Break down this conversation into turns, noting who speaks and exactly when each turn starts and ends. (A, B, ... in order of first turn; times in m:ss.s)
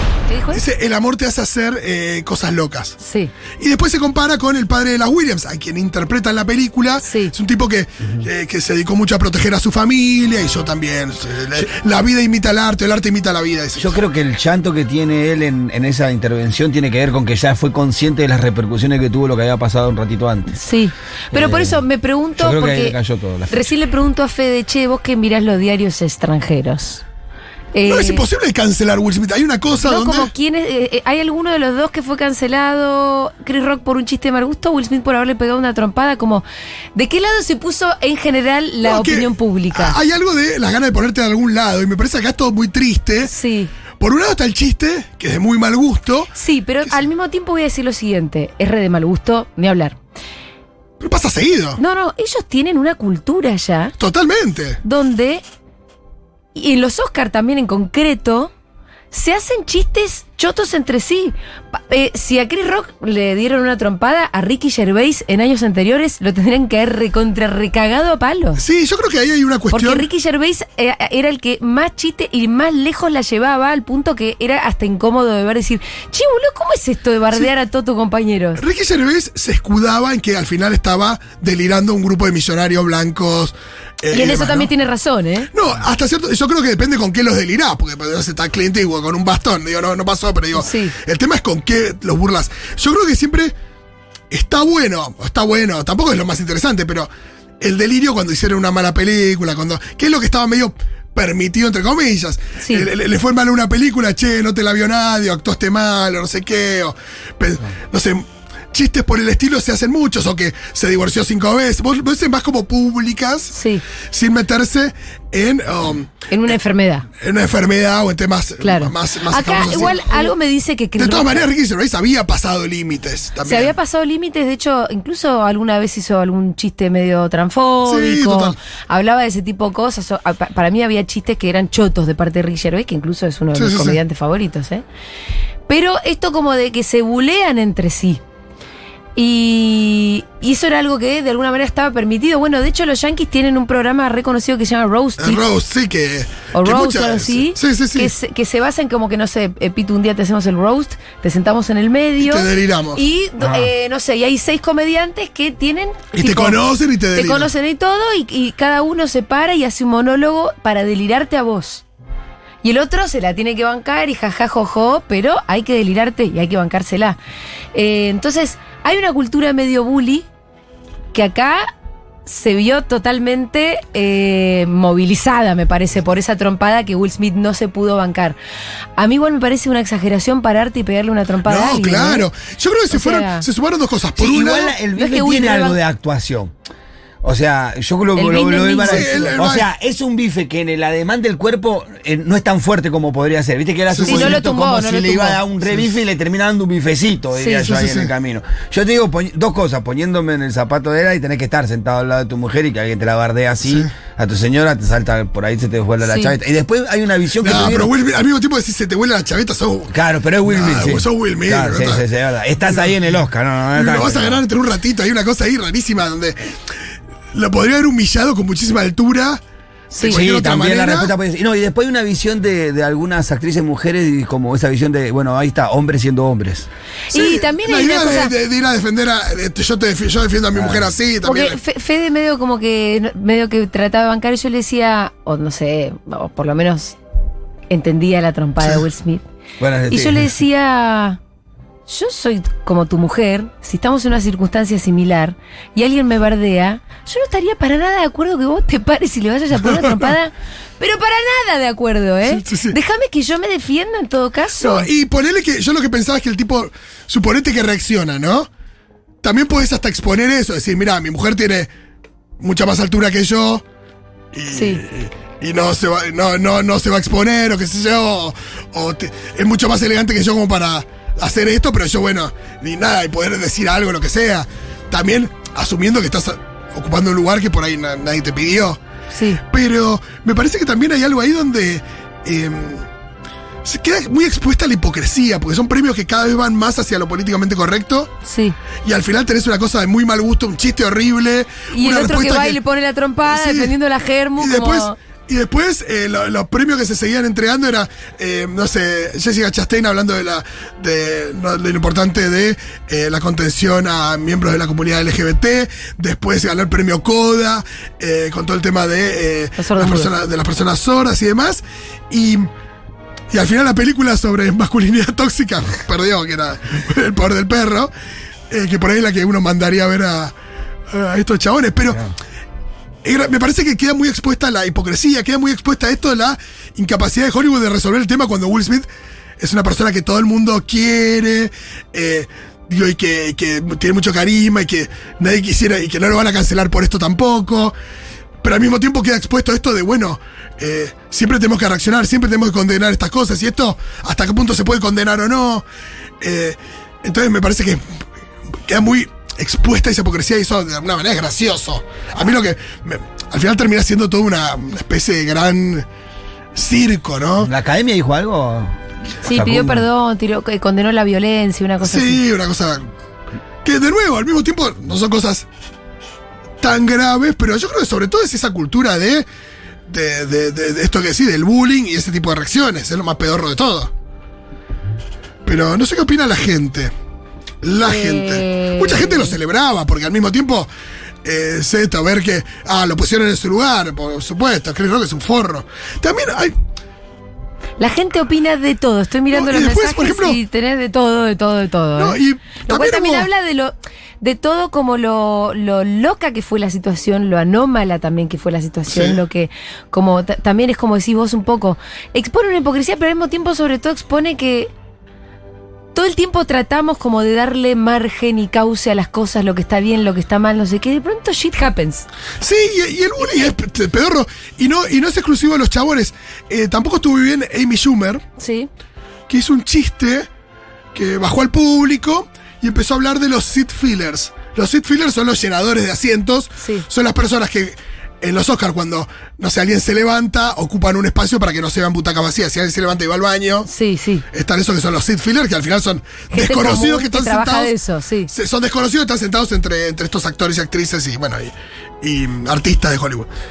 0:00.3-0:00.6 A
0:00.5-0:03.0 B
0:03.0-0:03.3 A
0:03.6-0:13.9 B
0:07.0-0:07.3 A
0:13.8-0:20.6 C
0:20.5-0:22.9 A
0:21.3-0:21.8 C
0:22.4-0:23.6 C
0:23.5-0:27.0 A
0:27.7-0:28.2 A
0:27.8-0:30.3 B
0:29.8-0:36.4 A
0:36.9-0:40.0 A
0:38.8-0:43.3 B
0:43.2-0:43.7 A
0:44.0-0:46.3 B
0:46.3-0:50.0 A
0:51.0-0:51.8 B
0:51.8-0:53.9 A
0:54.0-0:54.8 B
0:54.8-0:55.4 A
0:56.5-0:58.5 A
0:59.1-1:08.6 A
1:08.6-1:10.1 B
1:09.7-1:18.6 A
1:18.6-1:24.7 B
1:24.1-1:25.5 A
1:25.5-1:33.5 B
1:30.5-1:30.9 A
1:34.3-1:37.1 B
1:37.6-1:53.5 B
1:42.6-1:42.9 A
1:53.5-1:53.8 A
1:54.1-1:56.1 B
1:56.3-1:57.1 A
1:57.2-2:00.3 B
1:58.6-2:01.4 A
2:01.0-2:03.7 B
2:03.4-2:14.8 A
2:07.8-2:08.6 B
2:13.5-2:14.0 B
2:15.7-2:18.2 A
2:19.2-2:25.4 A
2:25.2-2:28.1 B
2:26.5-2:36.6 A
2:32.2-2:33.0 B
2:36.2-2:37.5 B
2:37.1-2:41.8 A
2:42.6-2:47.2 A
2:47.7-2:50.2 A
2:51.1-2:51.7 A
2:52.2-2:58.4 A
2:59.0-3:02.3 A
3:01.4-3:04.7 B
3:02.9-3:03.4 A
3:04.2-3:06.5 C
3:04.9-3:05.8 A
3:07.2-3:27.9 C
3:08.2-3:09.4 A
3:08.8-3:09.7 B
3:13.9-3:14.4 B
3:14.0-3:15.4 A
3:17.4-3:17.7 A
3:17.7-3:18.1 B
3:23.6-3:23.9 B
3:26.0-3:26.3 A
3:27.4-3:29.9 B
3:29.9-3:34.4 C
3:30.4-3:32.0 B
3:32.6-3:33.0 B
3:33.7-3:36.4 B
3:37.3-3:39.4 B
3:39.9-3:40.2 A
3:39.9-3:41.1 B
3:40.0-3:46.7 C
3:47.1-3:48.3 A
3:47.1-3:51.6 B
3:50.5-3:50.9 C
3:51.2-3:57.0 A
3:57.7-3:59.2 A
3:59.6-4:00.3 C
3:59.9-4:01.2 A
4:01.9-4:14.9 A
4:09.8-4:10.1 B
4:12.2-4:12.8 B
4:14.6-4:18.5 B
4:19.2-4:21.7 B
4:22.4-4:23.6 B
4:24.3-4:38.8 B
4:24.5-4:24.8 A
4:39.1-4:39.4 A
4:39.4-4:42.8 B
4:43.6-4:48.1 B
4:48.2-4:48.5 A
4:48.8-4:52.6 B
4:51.7-4:54.9 A
4:53.2-4:53.7 B
4:54.4-5:12.5 B
5:09.6-5:10.1 A
5:13.3-5:17.9 B
5:18.5-5:20.3 B
5:20.9-5:22.0 B
5:23.0-5:28.9 B
5:29.4-5:37.7 B
5:38.4-5:45.6 B
5:46.2-5:47.8 B
5:48.6-5:55.8 B
5:56.5-5:57.5 B
5:57.4-5:59.8 C
5:59.2-6:02.2 A
6:01.8-6:02.8 B
6:03.6-6:05.4 B
6:06.6-6:09.2 B
6:09.9-6:13.9 B
6:15.4-6:16.9 B
6:17.6-6:20.7 B
6:17.8-6:19.4 A
6:21.2-6:26.5 B
6:27.8-6:44.7 A
6:29.3-6:30.4 B
6:31.9-6:33.3 B
6:38.9-6:39.2 B
6:45.9-6:52.0 A
6:52.4-6:58.2 B
6:58.4-6:58.7 A
6:59.3-7:00.3 B
7:00.9-7:13.7 B
7:06.6-7:06.8 A
7:13.6-7:14.2 A
7:14.3-7:17.7 B
7:16.3-7:18.3 A
7:18.3-7:23.3 B